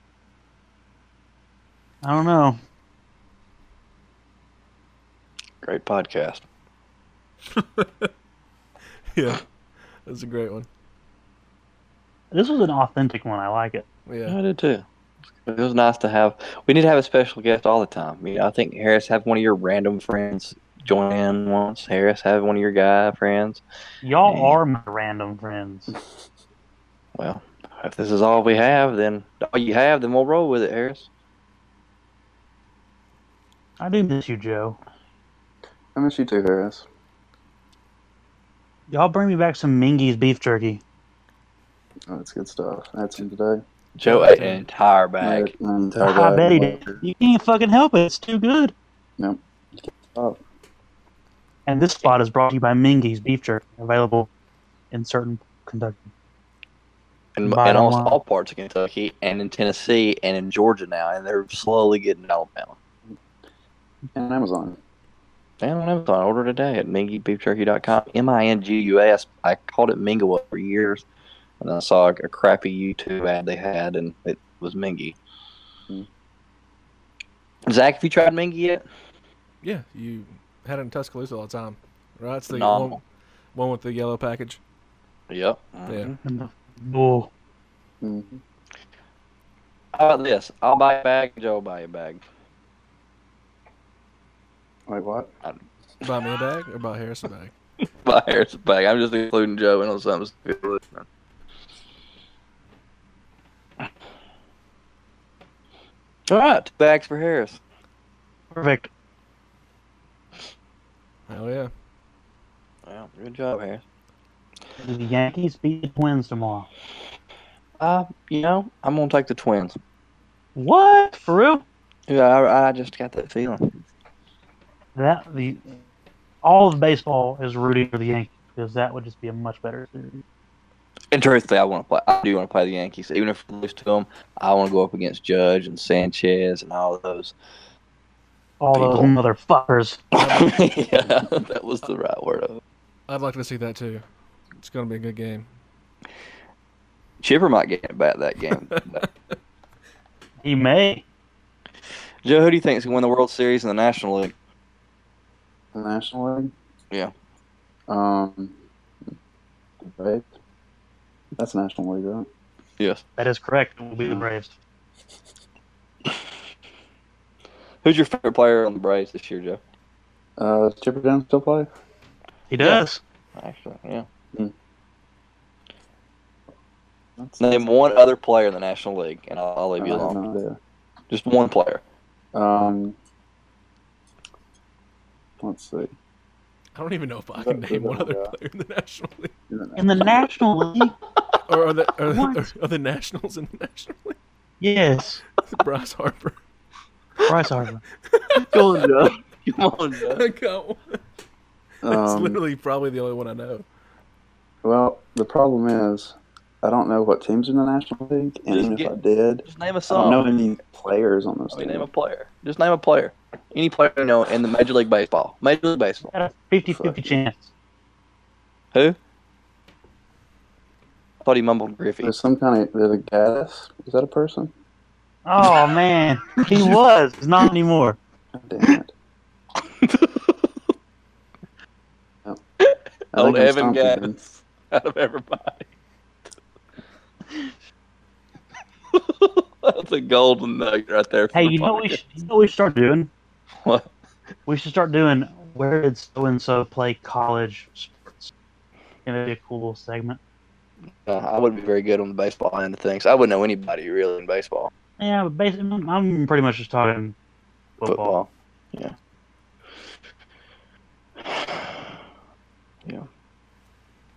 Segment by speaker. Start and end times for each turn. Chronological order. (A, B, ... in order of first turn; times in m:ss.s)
0:02.0-0:02.6 A
0:05.6-0:06.4 B
0:07.6-0:08.1 C
0:09.1-0:09.4 C
0:10.1-0:10.7 C
0:12.3-0:13.9 A
0:14.1-0:14.4 C
0:14.3-0:14.8 B
0:15.4-0:23.6 B
0:24.0-0:25.9 A
0:24.2-0:24.6 B
0:27.2-0:31.1 B
0:33.8-0:34.8 A
0:36.0-0:36.8 D
0:38.9-0:40.8 A
0:42.1-0:43.6 D
0:44.0-0:45.5 B
0:44.0-0:44.6 C
0:45.2-0:47.0 D
0:46.0-0:48.7 A
0:49.2-0:50.4 D
0:51.7-0:54.3 A
0:54.9-0:56.1 A
0:57.4-1:02.8 B
0:57.4-0:58.2 A
1:04.1-1:04.8 D
1:05.6-1:11.0 B
1:11.6-1:15.2 B
1:17.7-1:18.8 B
1:19.6-1:23.0 C
1:22.5-1:23.0 B
1:23.5-1:24.6 C
1:25.3-1:26.2 B
1:25.9-1:26.1 C
1:26.2-1:27.3 A
1:28.0-1:28.4 D
1:29.9-1:32.2 B
1:34.9-1:35.3 D
1:36.0-1:37.5 C
1:38.0-1:41.0 B
1:46.3-1:47.6 B
1:48.5-1:48.9 A
1:51.3-1:51.7 C
1:52.9-1:53.8 B
1:54.8-1:56.7 A
1:57.8-1:59.8 B
2:00.6-2:01.6 A
2:02.1-2:03.7 B
2:05.0-2:05.7 A
2:06.4-2:10.2 A
2:11.1-2:17.4 B
2:18.6-2:20.0 A
2:18.7-2:19.1 B
2:20.2-2:22.6 B
2:23.1-2:24.0 C
2:24.6-2:25.5 C
2:27.2-2:29.1 B
2:28.5-2:29.0 C
2:30.4-2:31.0 A
2:32.2-2:34.3 B
2:35.7-2:36.5 D
2:37.9-2:38.5 D
2:39.8-2:40.3 D
2:41.3-2:42.3 D
2:43.2-2:44.5 A
2:47.8-2:49.6 B
2:50.4-2:51.7 D
2:52.5-2:53.0 A
2:53.4-2:54.1 B
2:57.2-2:57.6 D
2:57.4-3:00.2 B
2:59.8-3:00.6 D
3:01.1-3:01.8 B
3:02.3-3:03.0 D
3:05.4-3:05.9 D
3:06.8-3:09.3 C
3:07.4-3:08.3 D
3:09.5-3:10.2 D
3:09.8-3:11.0 A
3:11.5-3:14.2 C
3:12.1-3:12.5 A
3:14.6-3:15.2 A
3:15.4-3:16.4 C
3:17.3-3:17.8 A
3:18.1-3:18.6 C
3:18.4-3:20.2 B
3:20.0-3:21.0 C
3:21.8-3:22.4 D
3:21.9-3:23.6 C
3:24.6-3:31.9 D
3:28.5-3:28.9 B
3:29.4-3:30.3 B
3:31.5-3:36.1 B
3:36.1-3:37.5 A
3:36.7-3:37.2 D
3:41.2-3:42.1 B
3:42.0-3:44.5 D
3:45.2-3:48.0 A
3:48.3-3:48.9 D
3:49.8-3:50.3 B
3:52.6-3:55.6 B
3:53.1-3:54.2 D
3:58.9-4:02.0 B
4:01.3-4:03.1 A
4:03.6-4:03.9 B
4:04.5-4:08.3 A
4:09.1-4:10.2 A
4:11.0-4:14.7 B
4:15.0-4:17.2 A
4:17.8-4:18.2 A
4:17.9-4:18.9 B
4:21.3-4:21.6 B